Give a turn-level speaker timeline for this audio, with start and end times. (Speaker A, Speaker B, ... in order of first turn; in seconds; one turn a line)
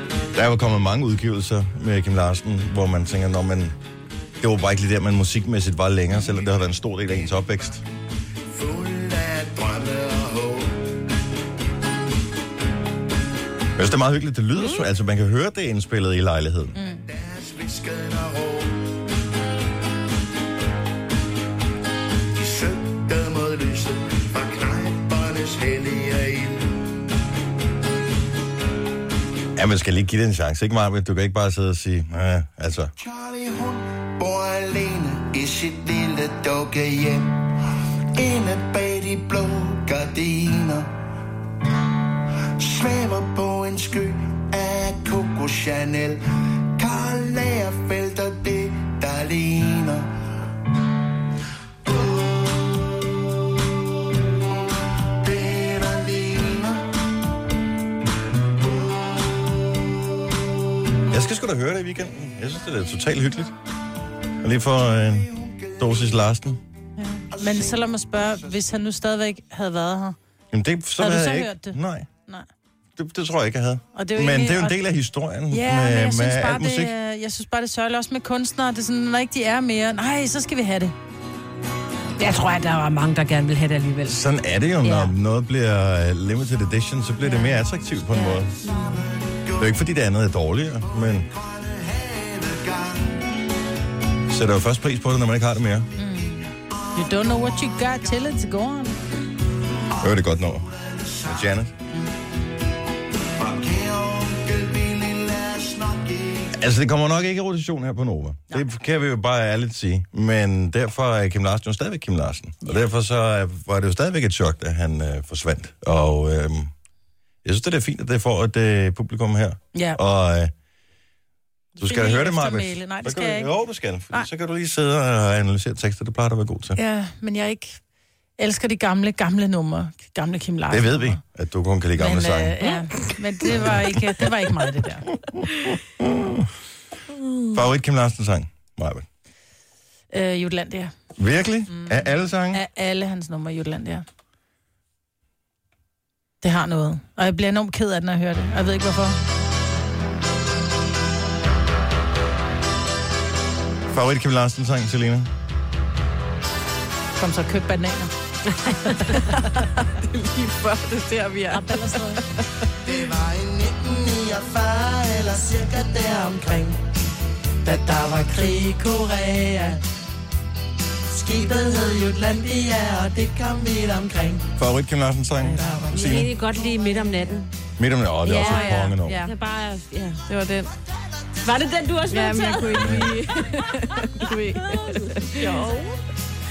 Speaker A: 0.3-3.7
Speaker A: 4.4-7.8
Speaker B: 7.2-7.8
Speaker B: 8.5-11.1
Speaker A: 13.8-16.8
Speaker C: 16.8-17.0
Speaker B: 17.1-19.0
Speaker B: 22.3-26.9
Speaker A: 29.6-32.9
Speaker B: 33.0-37.6
Speaker B: 38.1-41.0
Speaker B: 42.6-50.3
Speaker B: 51.9-52.8
Speaker B: 55.2-57.0
Speaker A: 61.1-63.5
Speaker A: 64.4-66.6
Speaker B: 64.8-66.2
Speaker C: 67.0-70.2
Speaker B: 67.3-68.6
Speaker A: 70.5-72.1
Speaker C: 71.0-72.5
Speaker A: 73.0-76.9
Speaker C: 74.0-74.8
Speaker C: 75.5-81.0
Speaker D: 82.2-84.2
Speaker A: 84.1-88.5
Speaker D: 84.8-85.1
Speaker B: 88.6-89.8
Speaker A: 89.6-91.3
Speaker B: 90.8-93.3
Speaker A: 94.3-95.9
Speaker C: 96.0-96.4
Speaker B: 96.7-97.7
Speaker C: 97.0-99.0
Speaker B: 99.9-101.4
Speaker A: 100.0-100.7
Speaker A: 101.3-101.7
Speaker B: 103.4-106.6
Speaker A: 106.5-116.7
Speaker A: 117.4-120.5
Speaker C: 119.7-120.0
Speaker C: 121.8-123.5
Speaker A: 121.8-126.8
Speaker C: 126.8-127.8
Speaker C: 128.4-131.2
Speaker A: 130.7-132.6
Speaker C: 132.0-135.1
Speaker A: 135.4-136.5
Speaker E: 137.2-137.5
Speaker A: 137.5-139.1
Speaker C: 140.1-140.9
Speaker A: 141.2-142.6
Speaker C: 141.7-144.1
Speaker C: 146.4-149.2
Speaker A: 153.9-155.3
Speaker C: 157.2-158.1
Speaker E: 158.7-162.2
Speaker C: 161.5-162.2
Speaker B: 162.9-166.8
Speaker C: 167.7-169.8
Speaker B: 171.2-174.4
Speaker C: 172.4-172.8
Speaker A: 174.6-176.3
Speaker D: 175.9-177.5
Speaker A: 177.8-179.3
Speaker D: 178.2-180.2
Speaker E: 178.4-179.3
Speaker E: 180.3-180.7
Speaker D: 181.4-183.2
Speaker E: 182.1-185.7
Speaker C: 185.3-185.8